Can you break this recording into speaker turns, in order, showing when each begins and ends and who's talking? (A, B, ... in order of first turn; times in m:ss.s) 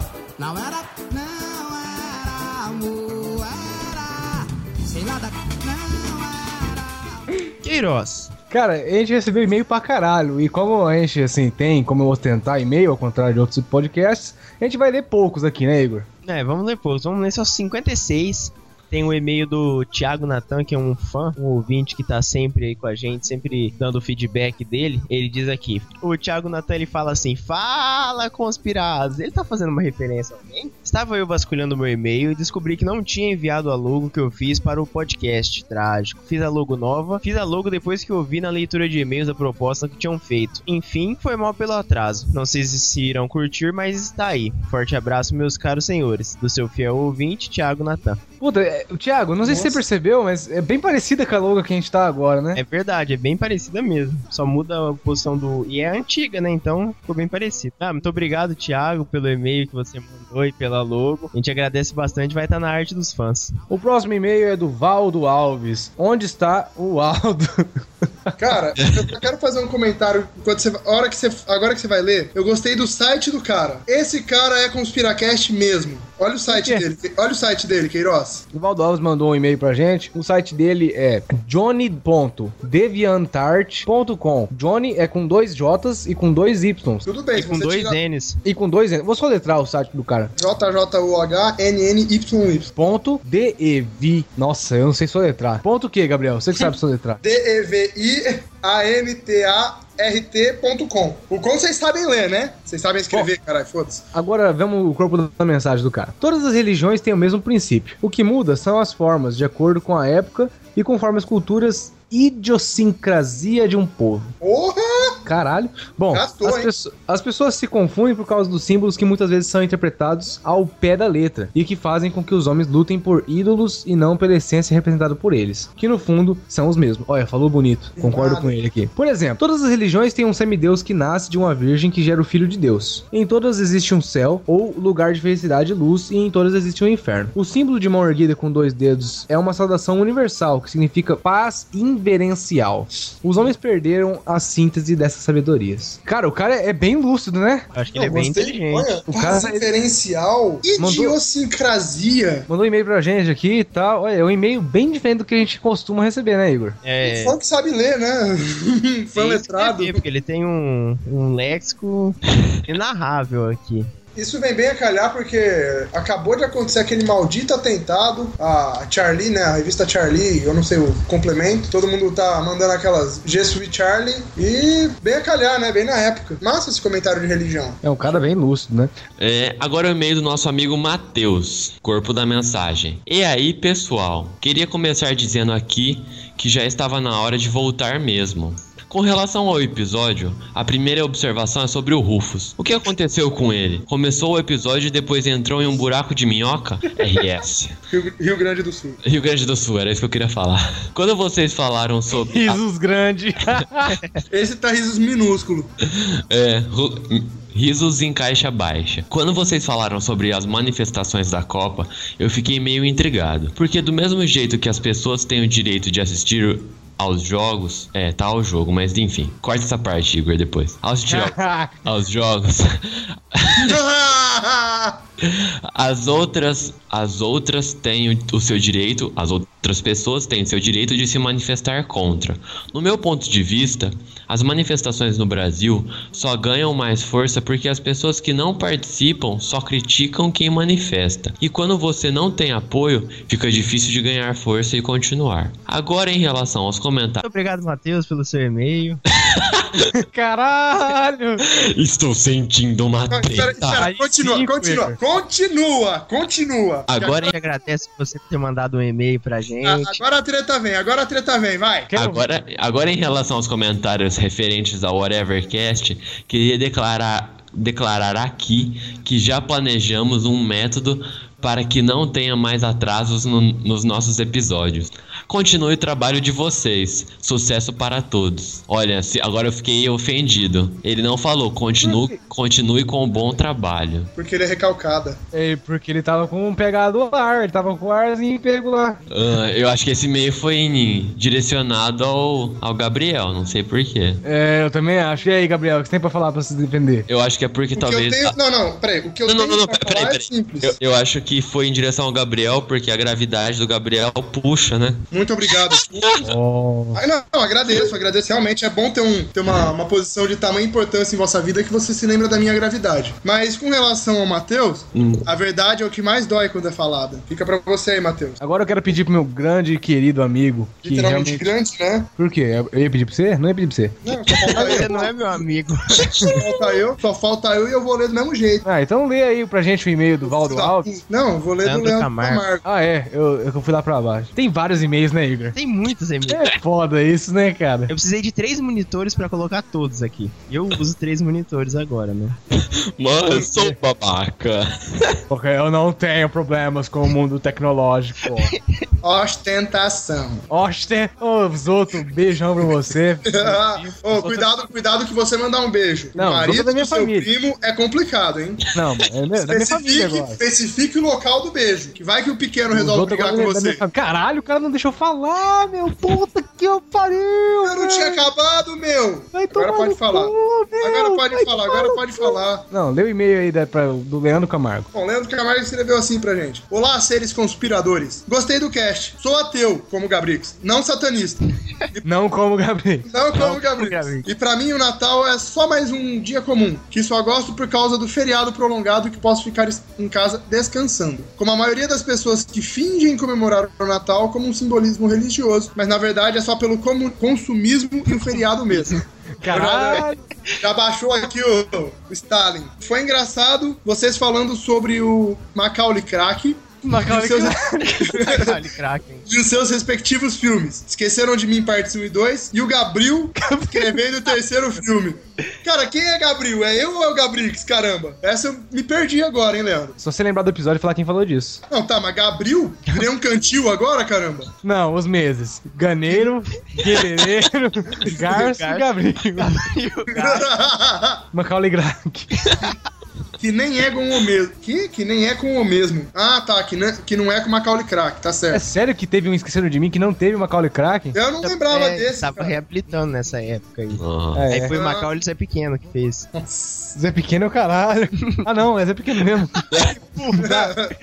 0:00.4-0:07.1 A
0:07.6-0:08.3 B
0:08.5-0:16.1 C
0:16.3-0:48.2 B
0:48.4-0:52.6 C
0:49.4-0:49.8 D
0:52.6-1:03.6 B
1:03.7-1:08.4 C
1:08.4-1:18.4 D
1:16.5-1:16.8 C
1:18.5-1:27.1 C
1:27.0-1:28.0 D
1:27.4-1:28.4 B
1:28.4-1:30.3 C
1:30.4-1:32.7 D
1:32.8-1:37.2 C
1:37.2-1:44.0 D
1:44.1-1:54.3 C
1:54.4-1:55.2 D
1:55.2-2:27.7 C
1:56.1-1:56.7 D
2:08.0-2:08.6 D
2:27.7-2:28.9 B
2:28.0-2:32.5 D
2:29.1-2:29.6 C
2:30.8-2:31.2 C
2:32.5-2:36.8 C
2:36.8-2:37.4 B
2:37.0-2:40.0 D
2:39.2-2:43.9 B
2:44.2-2:57.8 D
2:57.8-2:58.9 C
2:59.2-3:17.8 E
3:17.9-3:19.0 D
3:19.0-3:22.6 E
3:22.1-3:24.0 C
3:24.3-3:25.7 D
3:26.0-3:43.8 E
3:41.1-3:41.7 C
3:43.6-3:45.0 D
3:45.2-4:07.2 E
4:07.2-4:09.0 B
4:09.3-4:09.6 E
4:10.1-4:11.4 C
4:11.5-4:13.8 E
4:13.1-4:17.3 D
4:13.8-4:15.0 C
4:16.9-4:17.3 E
4:17.2-4:20.0 B
4:19.6-4:21.9 D
4:21.9-4:22.2 C
4:22.0-4:44.1 E
4:41.8-4:42.2 C
4:44.2-4:45.2 D
4:45.3-4:49.0 C
4:49.1-4:54.2 E
4:54.2-4:57.1 C
4:57.1-4:58.4 E
4:57.8-5:00.8 D
4:59.2-5:06.2 E
5:05.1-5:06.2 D
5:06.2-5:07.0 C
5:07.0-5:18.4 D
5:15.0-5:15.3 E
5:18.4-5:21.5 C
5:20.8-5:22.1 D
5:22.2-5:25.0 C
5:24.0-5:25.1 D
5:24.4-5:26.4 B
5:26.0-5:28.6 D
5:28.6-5:31.0 C
5:30.2-5:32.6 D
5:31.6-5:32.5 B
5:32.6-5:35.6 C
5:35.5-5:36.5 B
5:36.3-5:37.9 C
5:37.9-5:42.4 B
5:42.6-5:45.2 E
5:45.3-5:48.6 C
5:49.0-5:50.4 D
5:50.5-5:54.5 C
5:53.2-5:58.6 D
5:56.2-5:57.3 C
5:58.7-6:00.4 C
5:59.4-6:03.8 D
6:02.7-6:08.2 C
6:07.6-6:12.6 D
6:09.3-6:14.9 C
6:14.9-6:21.4 D
6:22.0-6:23.1 C
6:23.1-6:38.9 D
6:23.3-6:24.3 B
6:38.1-6:39.0 B
6:39.4-6:40.2 C
6:39.5-6:40.0 D
6:39.5-6:40.0 B
6:40.6-6:48.6 D
6:46.9-6:49.2 B
6:46.9-6:48.0 C
6:49.3-7:00.0 D
6:53.4-6:54.0 C
7:00.0-7:01.6 C
7:01.7-7:04.5 D
7:04.6-7:09.6 C
7:08.1-7:10.5 B
7:10.1-7:11.2 D
7:11.3-7:12.3 C
7:12.4-7:12.8 B
7:13.4-7:18.6 D
7:18.5-7:21.2 C
7:21.1-7:22.6 D
7:21.4-7:26.3 B
7:23.9-7:24.5 E
7:24.4-7:24.7 C
7:24.7-7:25.1 D
7:26.4-7:26.9 D
7:27.0-7:30.7 C
7:30.4-7:30.9 D